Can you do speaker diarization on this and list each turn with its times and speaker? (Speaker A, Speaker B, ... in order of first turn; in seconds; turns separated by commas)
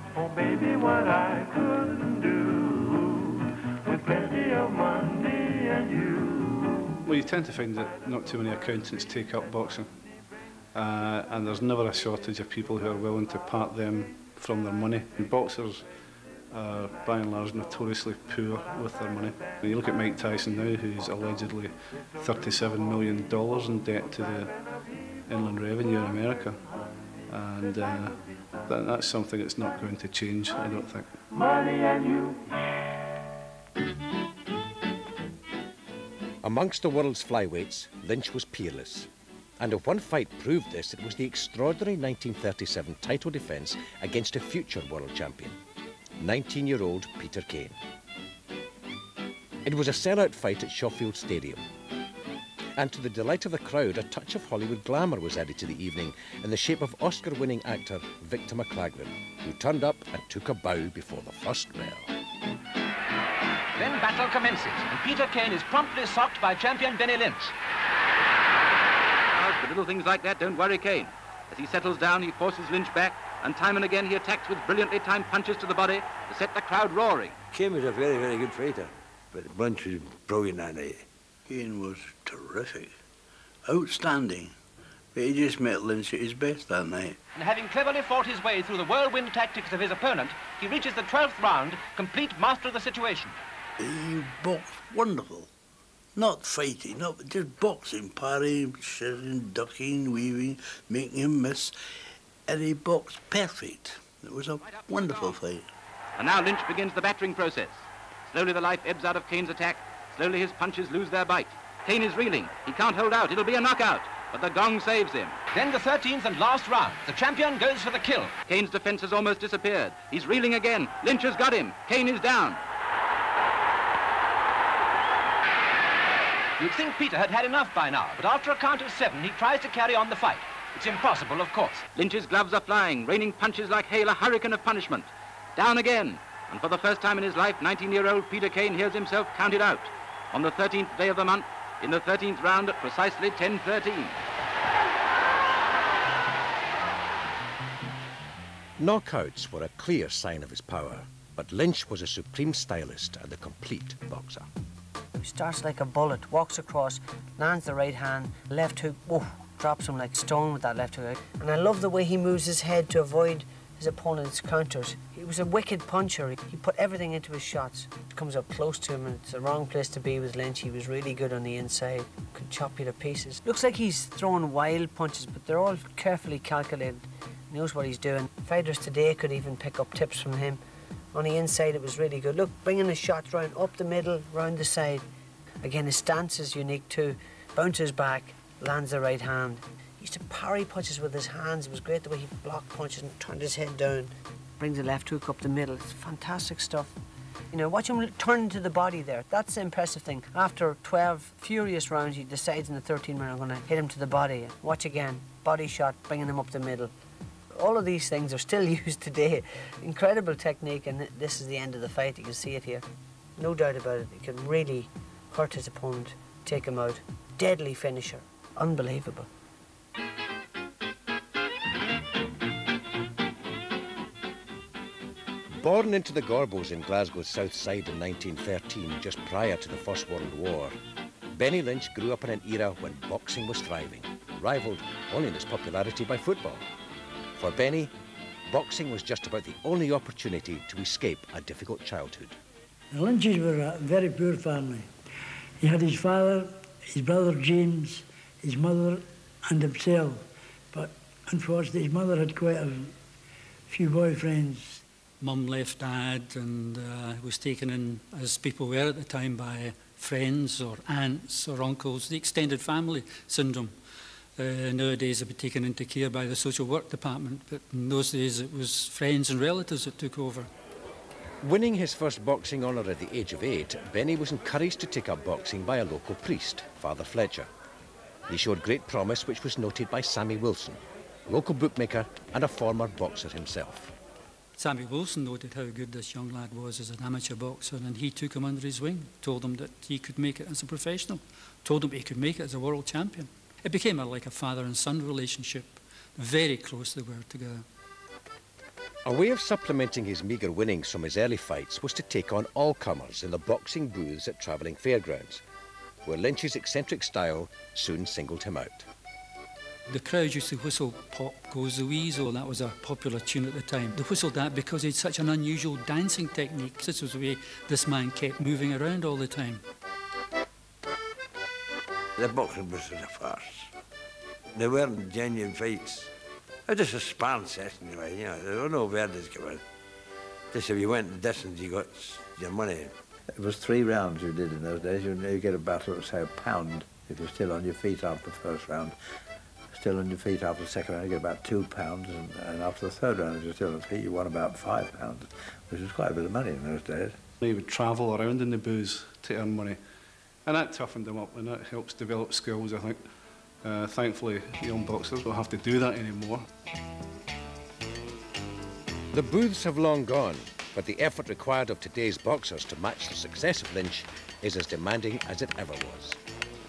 Speaker A: 0.1-7.0, Speaker B: 7.0-9.9, Speaker B: 10.7-15.8, Speaker B: 16.5-24.5, Speaker B: 25.3-26.6, Speaker B: 27.3-31.2, Speaker A: 31.3-32.6, Speaker C: 36.4-45.6, Speaker C: 46.2-47.8, Speaker C: 49.6-51.7, Speaker C: 52.8-62.1, Speaker D: 63.8-67.5, Speaker E: 69.3-77.3, Speaker F: 77.5-81.0, Speaker G: 81.5-82.9, Speaker G: 83.7-84.5, Speaker G: 85.1-87.2, Speaker D: 87.3-93.4, Speaker G: 93.8-95.5, Speaker G: 96.2-101.7, Speaker G: 102.5-105.7, Speaker E: 104.6-105.4, Speaker E: 106.2-115.4, Speaker D: 115.5-118.3, Speaker E: 118.5-122.6, Speaker D: 126.6-131.8, Speaker E: 131.9-144.2, Speaker C: 148.8-154.5, Speaker H: 155.1-180.6, Speaker H: 181.1-185.0, Speaker H: 185.6-196.9, Speaker H: 197.5-206.9, Speaker H: 207.5-212.8, Speaker H: 213.4-219.3, Speaker C: 225.5-230.8, Speaker C: 231.3-236.6, Speaker C: 237.4-237.9, Speaker C: 238.5-242.4, Speaker I: 242.9-244.8, Speaker I: 245.6-250.2, Speaker I: 250.7-252.9, Speaker I: 253.7-254.7, Speaker J: 255.2-263.7, Speaker J: 264.4-270.5, Speaker C: 271.4-277.5, Speaker C: 278.3-283.9, Speaker J: 284.6-297.6, Speaker C: 299.0-305.4, Speaker C: 306.0-308.9, Speaker J: 309.9-319.6, Speaker F: 322.1-323.7, Speaker F: 324.5-326.1, Speaker F: 326.7-329.6, Speaker F: 330.5-332.9, Speaker K: 333.3-338.9, Speaker K: 339.7-347.2, Speaker B: 347.4-349.8, Speaker B: 350.4-353.0, Speaker B: 353.6-356.4, Speaker C: 359.1-366.2